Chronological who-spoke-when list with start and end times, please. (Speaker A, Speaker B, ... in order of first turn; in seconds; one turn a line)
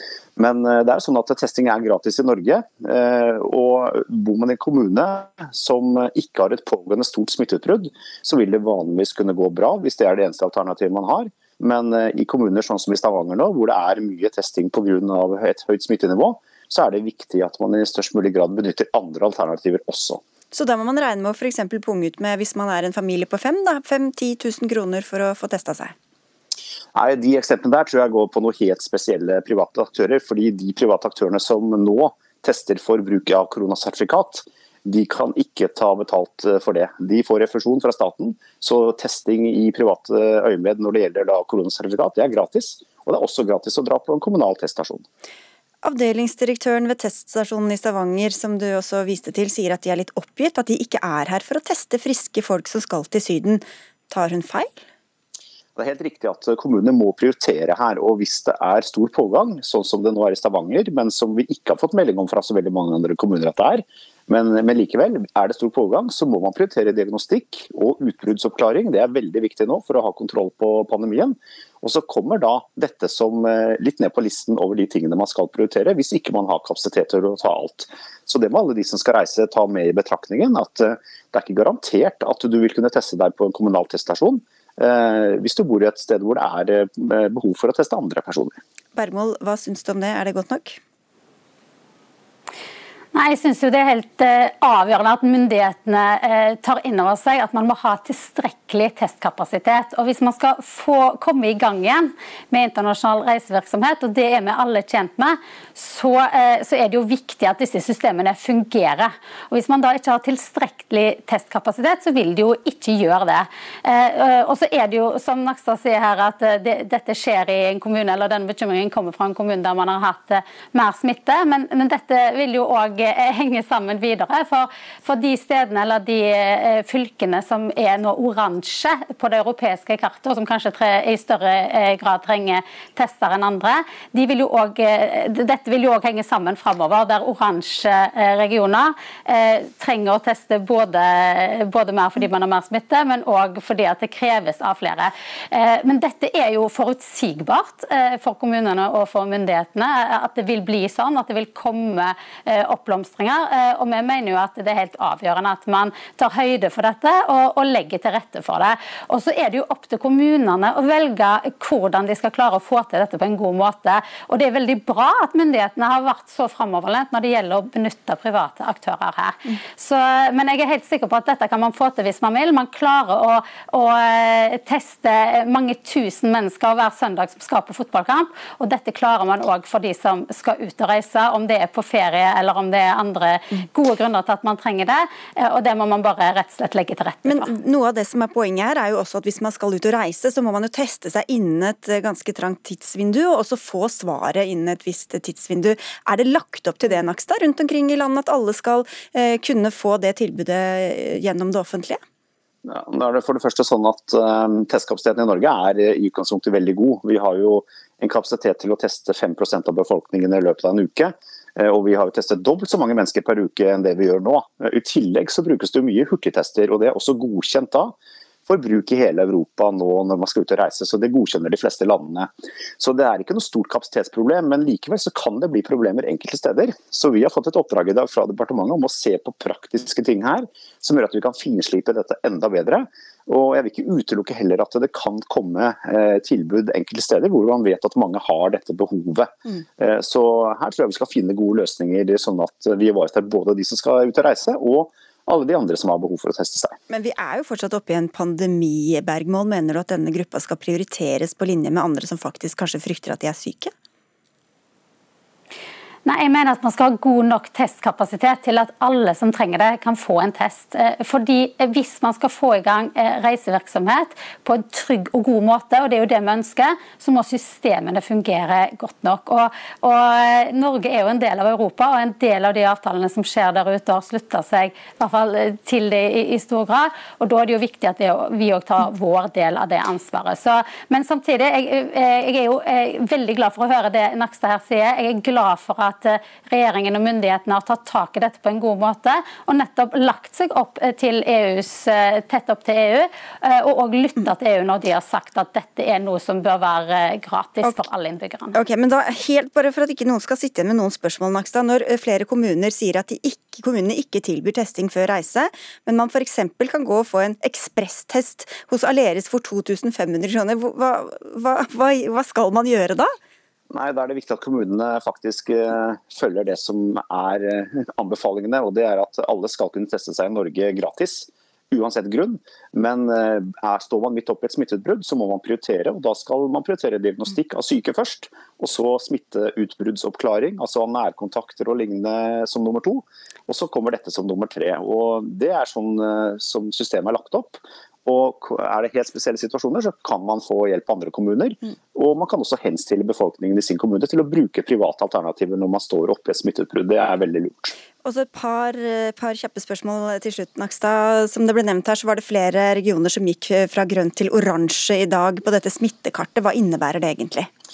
Speaker A: 0.4-20.2
Speaker B: 20.5-25.9
Speaker A: 26.9-45.0
Speaker B: 45.8-54.8
Speaker A: 55.8-88.6
Speaker B: 88.9-90.8
Speaker C: 93.1-187.5
Speaker B: 187.2-202.0
Speaker A: 202.6-217.9
Speaker A: 218.5-246.8
Speaker B: 246.9-253.7
Speaker C: 256.0-298.5
Speaker B: 298.5-313.1
Speaker A: 313.7-347.8
Speaker B: 348.0-357.5